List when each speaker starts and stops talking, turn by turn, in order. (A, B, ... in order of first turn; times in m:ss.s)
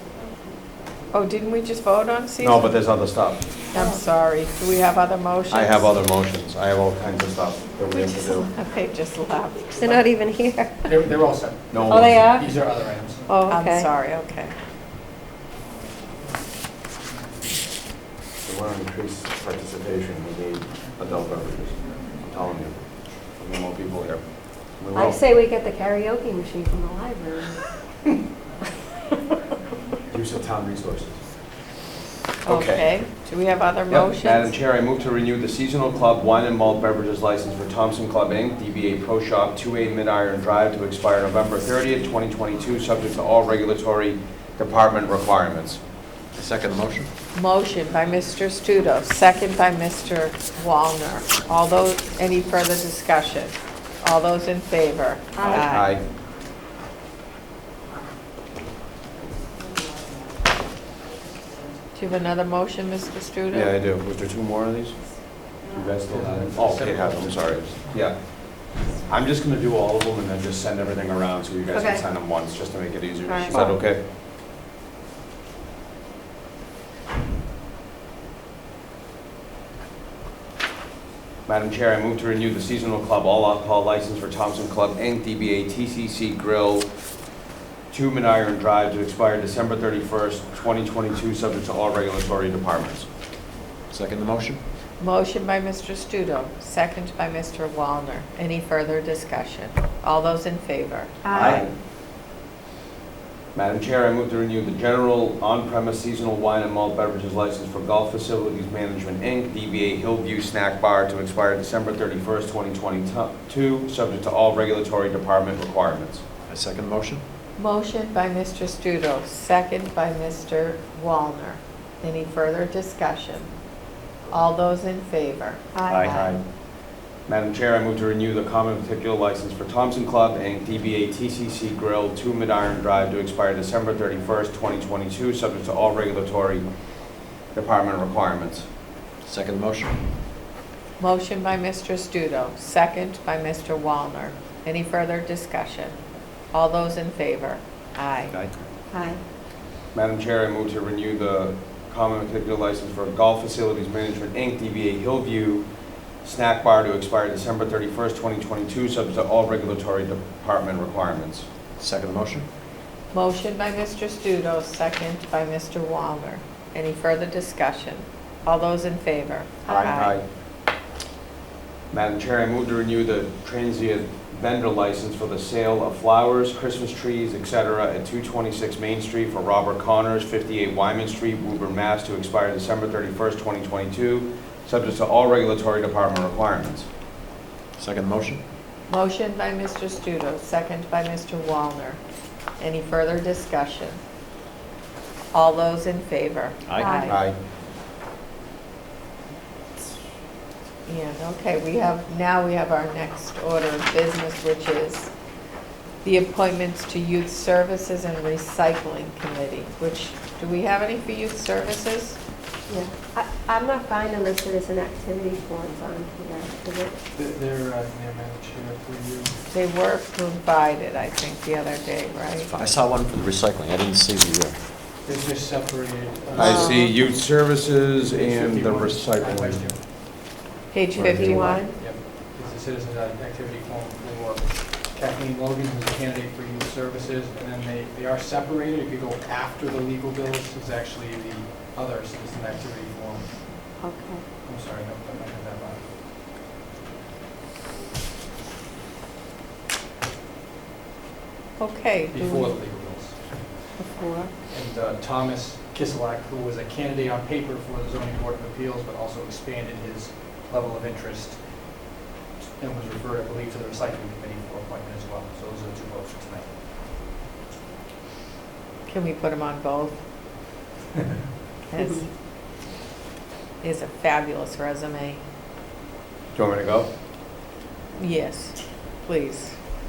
0:01.1-0:02.7 A
0:02.4-0:03.4 B
0:03.7-0:05.9 A
0:03.7-0:04.0 C
0:05.5-0:08.5 B
0:07.9-0:10.1 A
0:09.8-0:10.9 C
0:10.9-0:13.2 D
0:11.7-0:12.3 B
0:11.8-0:12.5 C
0:13.3-0:14.5 A
0:13.3-0:13.9 C
0:18.4-0:25.2 B
0:24.9-0:27.6 C
0:30.1-0:31.2 B
0:32.4-0:32.9 B
0:32.4-0:34.6 A
0:33.9-0:45.8 B
0:46.4-0:47.1 E
0:47.4-0:55.9 A
0:55.4-0:55.7 C
0:55.4-0:56.0 B
1:02.0-1:03.7 A
1:03.5-1:08.2 B
1:06.1-1:07.6 D
1:09.1-1:14.0 B
1:11.7-1:12.0 C
1:13.3-1:13.8 C
1:21.5-1:26.9 B
1:27.9-1:33.1 B
1:33.9-1:34.6 E
1:35.0-1:41.5 A
1:41.2-1:41.6 C
1:41.4-1:41.7 B
1:41.4-1:41.6 E
1:43.5-1:56.2 B
1:56.5-1:57.2 E
1:57.6-2:03.5 A
2:04.3-2:05.6 A
2:05.7-2:06.4 C
2:05.9-2:06.4 B
2:05.9-2:06.2 E
2:07.3-2:16.6 B
2:17.5-2:18.7 B
2:19.2-2:20.0 E
2:21.0-2:26.0 A
2:26.5-2:28.3 A
2:28.3-2:28.6 E
2:28.9-2:29.2 C
2:29.9-2:35.7 B
2:36.2-2:41.5 B
2:41.8-2:42.5 E
2:43.1-2:50.2 A
2:49.7-2:50.2 B
2:51.9-3:06.9 B
3:07.8-3:08.4 E
3:08.9-3:12.0 A
3:12.6-3:14.0 A
3:15.3-3:17.2 A
3:16.7-3:16.9 E
3:16.8-3:17.2 C
3:17.1-3:17.4 B
3:20.9-3:25.1 A
3:26.0-3:32.2 A
3:32.7-3:37.0 C
3:37.1-3:39.4 D
3:39.5-3:42.5 A
3:42.5-3:44.6 E
3:45.0-3:46.8 D
3:46.4-3:49.7 B
3:46.4-3:46.8 A
3:46.4-3:46.7 C
3:48.1-3:49.8 D
3:50.7-3:51.6 A
3:51.0-3:51.4 B
3:51.0-3:51.8 C
3:51.7-4:03.8 D
4:03.8-4:04.2 C
4:04.4-4:05.9 D
4:11.6-4:12.5 A
4:12.1-4:13.6 D
4:13.8-4:14.3 A
4:14.5-4:21.5 D
4:22.6-4:26.6 D
4:28.9-4:30.0 A
4:31.7-4:32.1 A
4:31.8-4:32.0 C
4:33.6-4:35.2 A
4:36.4-4:36.9 B
4:38.0-4:39.6 A